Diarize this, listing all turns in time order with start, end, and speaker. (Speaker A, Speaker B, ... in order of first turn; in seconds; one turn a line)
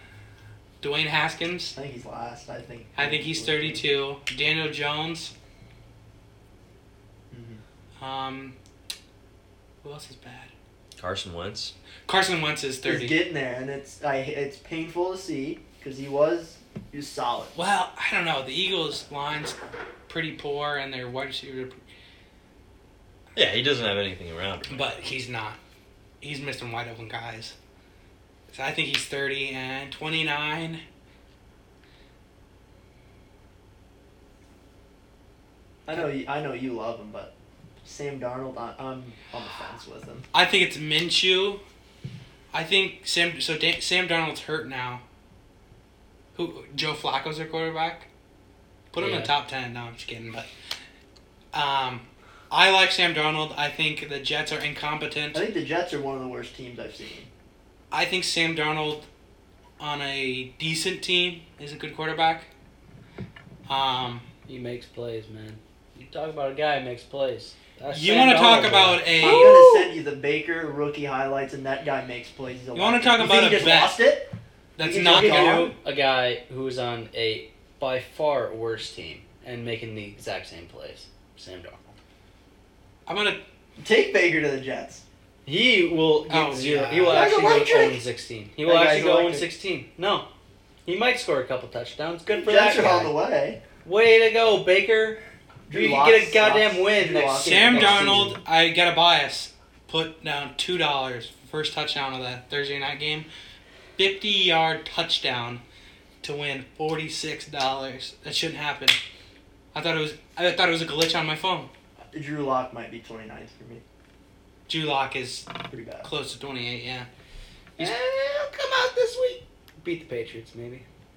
Speaker A: 0.8-1.8
Speaker B: 1.8-3.8
Speaker A: 3.0-5.3
Speaker B: 7.3-7.6
Speaker A: 8.0-8.6
Speaker A: 9.8-10.5
Speaker C: 11.0-11.7
Speaker A: 12.1-13.2
Speaker B: 12.8-17.5
Speaker A: 17.6-19.6
Speaker A: 20.1-21.8
Speaker C: 23.4-25.0
Speaker A: 24.7-25.6
Speaker A: 26.2-27.6
Speaker A: 28.5-30.8
Speaker B: 35.9-37.3
Speaker B: 37.8-40.2
Speaker A: 40.3-41.6
Speaker A: 42.5-45.0
Speaker A: 46.4-48.1
Speaker A: 48.9-50.5
Speaker D: 49.0-49.3
Speaker A: 51.5-55.4
Speaker B: 55.3-57.3
Speaker A: 57.9-59.0
Speaker A: 59.8-62.5
Speaker A: 63.7-64.3
Speaker D: 64.5-69.9
Speaker A: 67.9-69.7
Speaker B: 69.2-75.8
Speaker A: 72.7-74.1
Speaker A: 74.8-75.7
Speaker D: 75.2-81.9
Speaker A: 83.1-83.4
Speaker B: 83.8-85.0
Speaker D: 85.5-90.3
Speaker A: 86.3-87.4
Speaker B: 87.0-88.0
Speaker B: 88.6-89.5
Speaker D: 90.8-93.2
Speaker B: 92.3-93.6
Speaker D: 93.8-98.3
Speaker B: 95.7-98.3
Speaker A: 97.4-103.3
Speaker A: 104.0-105.6
Speaker A: 106.2-109.0
Speaker A: 109.7-111.7
Speaker B: 112.1-113.8
Speaker A: 114.7-117.1
Speaker B: 115.7-116.1
Speaker D: 117.8-120.8